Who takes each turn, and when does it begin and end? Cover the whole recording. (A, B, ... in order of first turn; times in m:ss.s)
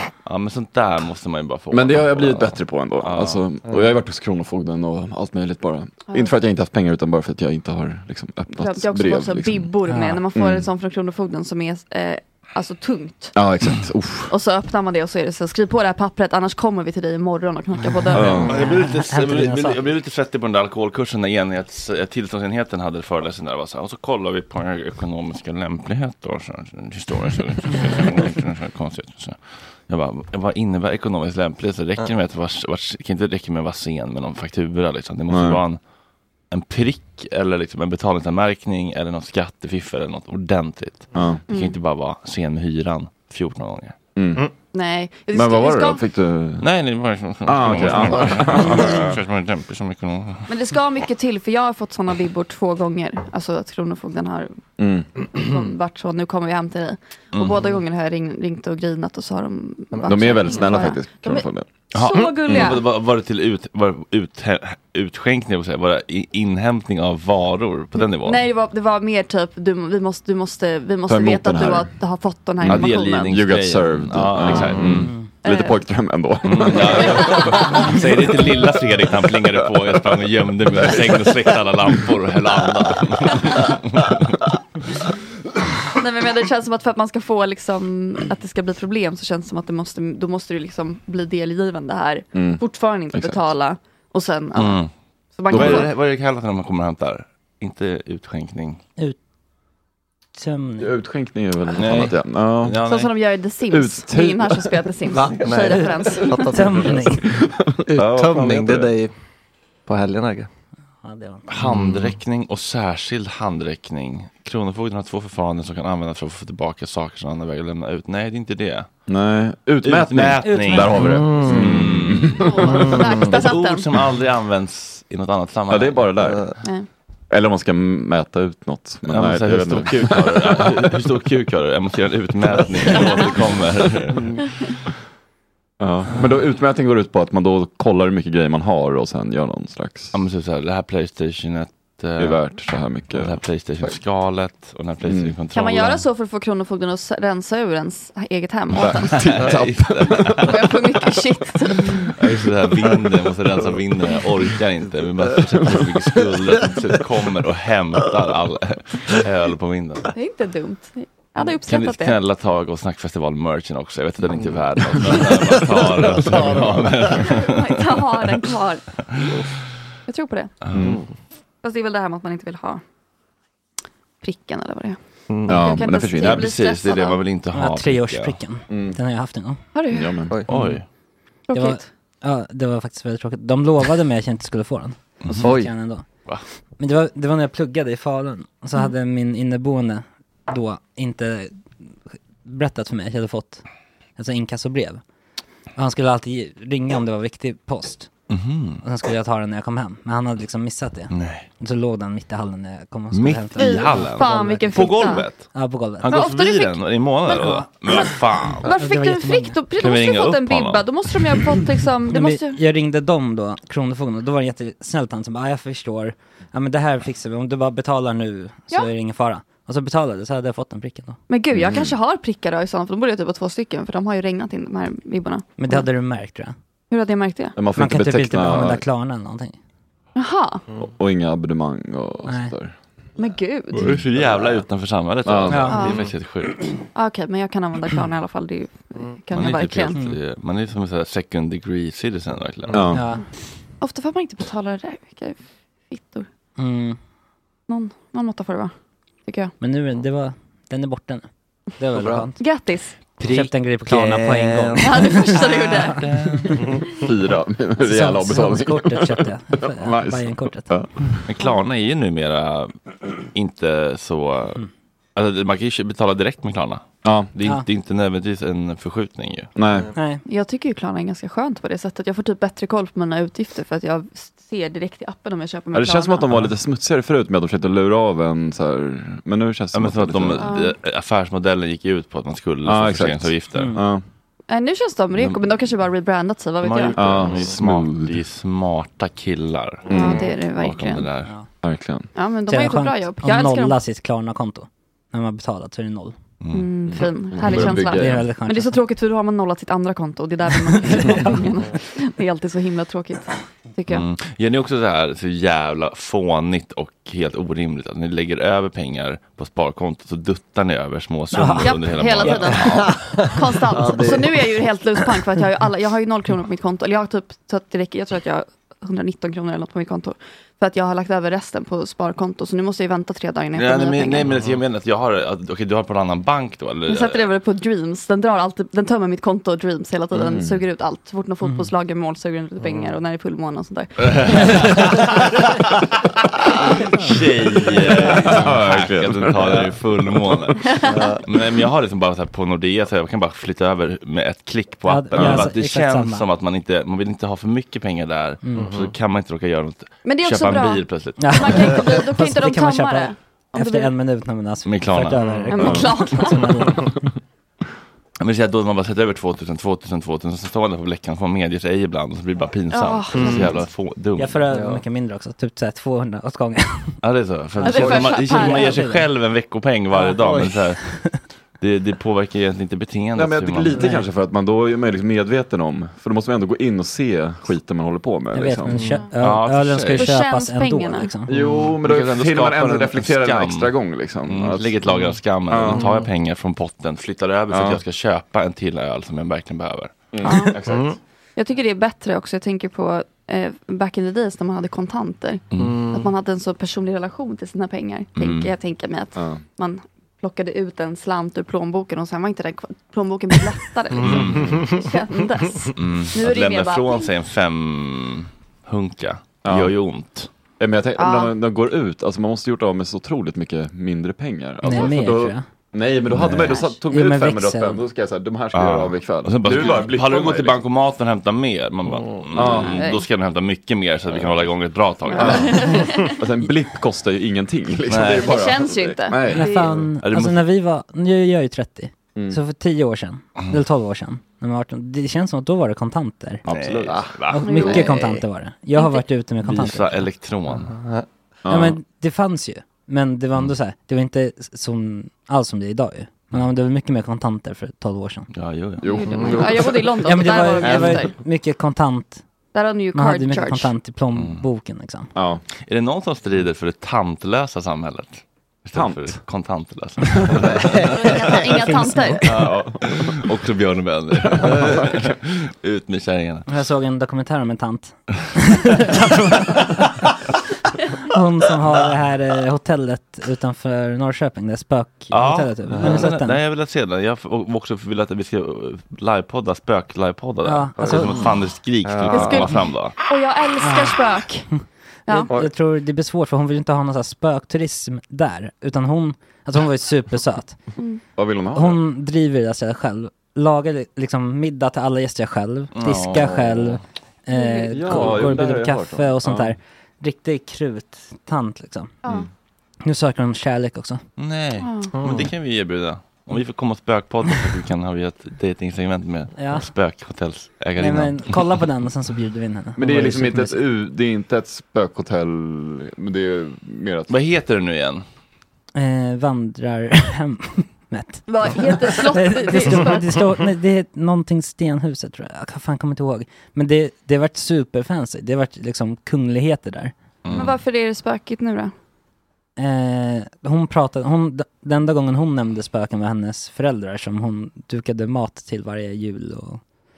0:00.2-0:03.4 A
0:01.7-0:09.7 B
0:08.5-0:13.3 C
0:09.9-0:10.2 D
0:10.3-0:10.7 B
0:13.3-0:14.3 B
0:14.3-0:18.7 C
0:17.8-0:19.8 D
0:18.1-0:18.5 B
0:18.4-0:35.8 A
0:35.3-0:35.6 B
0:36.5-0:43.9 A
0:41.1-0:41.4 B
0:41.5-0:41.8 C
0:44.2-0:44.5 B
0:44.7-0:46.0 C
0:45.3-0:46.7 B
0:46.6-0:50.5 A
0:47.4-0:49.2 B
0:50.5-0:54.6 C
0:54.8-0:55.1 B
0:55.3-1:02.8 C
0:57.3-0:57.6 A
0:59.9-1:00.3 E
1:00.0-1:01.7 B
1:01.9-1:08.4 A
1:02.5-1:02.8 B
1:08.0-1:13.4 C
1:11.1-1:11.9 B
1:12.6-1:17.9 B
1:12.6-1:15.1 A
1:15.4-1:15.8 C
1:16.4-1:24.4 A
1:17.0-1:18.0 C
1:26.0-1:35.9 C
1:32.3-1:33.4 B
1:34.5-1:34.9 A
1:35.5-1:38.8 A
1:35.5-1:35.9 B
1:40.4-1:40.9 D
1:40.8-1:42.8 B
1:41.8-1:43.1 A
1:42.8-1:46.5 C
1:43.7-1:45.4 B
1:45.1-1:47.2 E
1:46.5-1:47.2 D
1:47.2-1:48.9 B
1:47.9-1:49.1 E
1:49.8-1:50.5 E
1:51.0-1:51.4 D
1:51.5-1:58.9 A
1:51.6-1:52.0 E
1:59.1-2:03.0 B
1:59.8-2:06.0 A
2:00.4-2:01.4 D
2:01.1-2:01.7 E
2:02.4-2:03.9 C
2:05.7-2:06.6 B
2:06.2-2:06.5 E
2:06.6-2:06.9 C
2:07.3-2:10.7 B
2:09.1-2:14.4 A
2:15.8-2:20.2 B
2:20.1-2:22.6 A
2:22.2-2:23.4 B
2:23.1-2:26.0 A
2:25.1-2:25.4 B
2:25.5-2:29.4 C
2:28.7-2:30.6 B
2:29.0-2:30.7 A
2:30.4-2:32.1 C
2:32.0-2:40.1 A
2:40.1-2:42.2 C
2:41.7-2:47.8 A
2:47.2-2:49.0 C
2:50.1-2:50.5 C
2:50.6-2:50.9 A
2:50.7-2:51.0 B
2:51.6-2:52.8 C
2:54.2-2:57.2 C
2:55.3-2:55.7 E
2:55.5-2:56.5 B
2:56.2-2:58.4 A
2:57.5-2:59.6 D
2:58.7-2:59.0 B
2:59.7-3:00.2 C
2:59.9-3:00.4 B
3:00.5-3:00.8 A
3:01.5-3:01.8 C
3:01.5-3:06.0 D
3:05.4-3:05.7 E
3:06.8-3:11.6 D
3:12.4-3:13.6 D
3:14.2-3:15.0 D
3:15.8-3:18.1 D
3:18.3-3:18.8 A
3:18.8-3:26.2 D
3:21.1-3:21.4 A
3:23.1-3:25.5 A
3:23.6-3:25.3 C
3:26.0-3:28.8 A
3:26.1-3:32.6 C
3:27.4-3:27.7 D
3:28.7-3:29.6 D
3:29.8-3:30.9 A
3:32.1-3:41.2 D
3:41.3-3:45.8 C
3:41.5-3:41.9 B
3:45.6-3:46.5 D
3:46.9-3:47.6 C
3:47.6-3:48.8 B
3:47.8-3:49.6 D
3:50.1-3:50.6 C
3:50.8-3:52.7 B
3:52.3-3:52.5 D
3:53.2-3:53.9 C
3:53.8-3:56.8 A
3:53.9-3:54.6 B
3:55.2-3:56.1 B
3:55.5-3:55.8 D
3:55.7-3:56.0 C
3:56.9-4:00.0 C
3:59.3-4:03.0 A
4:02.7-4:03.0 B
4:02.9-4:03.2 D
4:03.8-4:06.3 C
4:06.6-4:07.0 D
4:07.7-4:08.7 C
4:09.2-4:09.5 C
4:09.6-4:11.2 D
4:11.8-4:12.5 D
4:12.4-4:13.0 C
4:13.2-4:14.8 A
4:13.2-4:15.9 D
4:14.8-4:16.1 C
4:15.3-4:16.6 A
4:17.0-4:21.2 B
4:17.8-4:20.7 D
4:21.2-4:24.6 A
4:25.1-4:26.8 A
4:27.0-4:27.3 B
4:27.3-4:29.5 A
4:29.6-4:30.0 B
4:29.9-4:30.2 D
4:30.2-4:36.3 C
4:35.7-4:40.5 B
4:39.7-4:43.7 A
4:40.4-4:40.7 C
4:42.6-4:44.0 B
4:43.6-4:43.8 D
4:44.5-4:47.2 C
4:46.6-4:51.3 A
4:47.0-4:47.9 B
4:49.9-4:50.3 B
4:49.9-4:51.1 C
4:51.6-4:52.1 B
4:52.1-4:53.8 C
4:52.5-4:56.2 D
4:56.4-4:56.7 A
4:56.5-5:04.0 C
4:56.9-4:58.3 B
4:57.7-4:58.8 D
5:03.9-5:13.3 A
5:11.3-5:12.6 D
5:11.5-5:24.3 C
5:12.9-5:13.1 E
5:13.7-5:14.5 E
5:23.5-5:27.2 A
5:26.9-5:34.9 C
5:30.1-5:30.6 B
5:31.4-5:31.7 D
5:34.0-5:35.4 A
5:36.9-5:40.7 A
5:37.6-5:40.5 B
5:40.6-5:40.9 C
5:40.8-5:41.2 E
5:41.2-5:51.8 A
5:44.8-5:46.2 D
5:45.2-5:45.5 B
5:48.4-5:48.7 D
5:48.6-5:48.9 E
5:50.0-5:53.9 C
5:51.2-5:57.1 D
5:54.6-5:55.5 A
5:55.5-5:56.8 C
5:55.6-5:55.9 B
5:58.2-6:04.4 A
6:02.7-6:03.6 C
6:03.2-6:03.4 E
6:04.2-6:06.9 D
6:04.5-6:04.8 E
6:07.0-6:13.8 A
6:07.6-6:09.1 D
6:07.6-6:08.8 C
6:10.2-6:10.6 E
6:10.8-6:11.2 D
6:13.2-6:18.8 B
6:13.7-6:14.0 D
6:18.3-6:21.3 D
6:18.7-6:19.0 E
6:19.2-6:20.1 A
6:19.9-6:21.1 C
6:21.3-6:24.8 B
6:21.4-6:23.7 A
6:24.2-6:29.9 A
6:25.5-6:25.9 B
6:27.5-6:27.8 B
6:30.1-6:31.0 B
6:30.2-6:30.6 C
6:30.7-6:30.9 E
6:31.4-6:47.1 C
6:35.5-6:35.8 A
6:35.6-6:36.0 E
6:38.2-6:38.5 B
6:39.2-6:39.4 B
6:44.0-6:44.6 B
6:44.0-6:44.7 A
6:44.4-6:44.7 E
6:45.7-6:50.3 A
6:49.4-6:49.7 B
6:50.6-7:00.6 B
6:51.0-6:51.3 C
6:54.6-6:55.4 D
6:56.1-6:56.6 A
6:56.6-6:57.8 D
6:58.5-7:05.8 A
7:02.3-7:02.9 B
7:02.7-7:03.0 C
7:05.1-7:06.2 C
7:05.1-7:09.8 B
7:07.9-7:08.3 A
7:08.1-7:09.8 C
7:09.3-7:16.4 D
7:10.0-7:10.4 A
7:16.4-7:17.8 B
7:16.5-7:17.8 A
7:17.3-7:20.1 D
7:17.4-7:18.0 C
7:18.7-7:19.0 C
7:19.4-7:20.8 A
7:20.7-7:21.0 E
7:21.4-7:21.8 B
7:21.5-7:28.3 D
7:28.3-7:29.4 A
7:28.8-7:30.0 B
7:28.9-7:31.1 C
7:30.0-7:32.2 D
7:32.5-7:33.7 C
7:32.9-7:35.1 D
7:34.1-7:34.4 A
7:35.1-7:35.4 B
7:35.6-7:41.4 A
7:38.7-7:39.2 B
7:40.9-7:42.3 C
7:41.8-7:42.2 D
7:42.2-7:43.2 B
7:42.8-7:46.5 A
7:44.2-7:45.0 B
7:46.5-7:50.0 D
7:51.0-7:56.4 D
7:55.1-8:03.0 A
8:00.4-8:01.1 D
8:00.9-8:01.3 B
8:02.1-8:04.5 C
8:03.6-8:04.0 D
8:05.1-8:10.6 D
8:10.8-8:11.0 C
8:11.2-8:11.8 B
8:11.5-8:21.9 D
8:15.7-8:16.8 A
8:17.3-8:18.2 C
8:17.7-8:19.5 B
8:22.8-8:24.0 D
8:24.2-8:31.4 A
8:24.6-8:24.9 C
8:25.0-8:25.3 E
8:29.4-8:29.7 D
8:30.8-8:33.6 D
8:32.8-8:37.1 B
8:37.1-8:38.0 A
8:38.7-8:49.9 D
8:41.3-8:43.2 C
8:50.2-8:50.5 A
8:50.3-8:51.7 C
8:52.6-8:59.6 D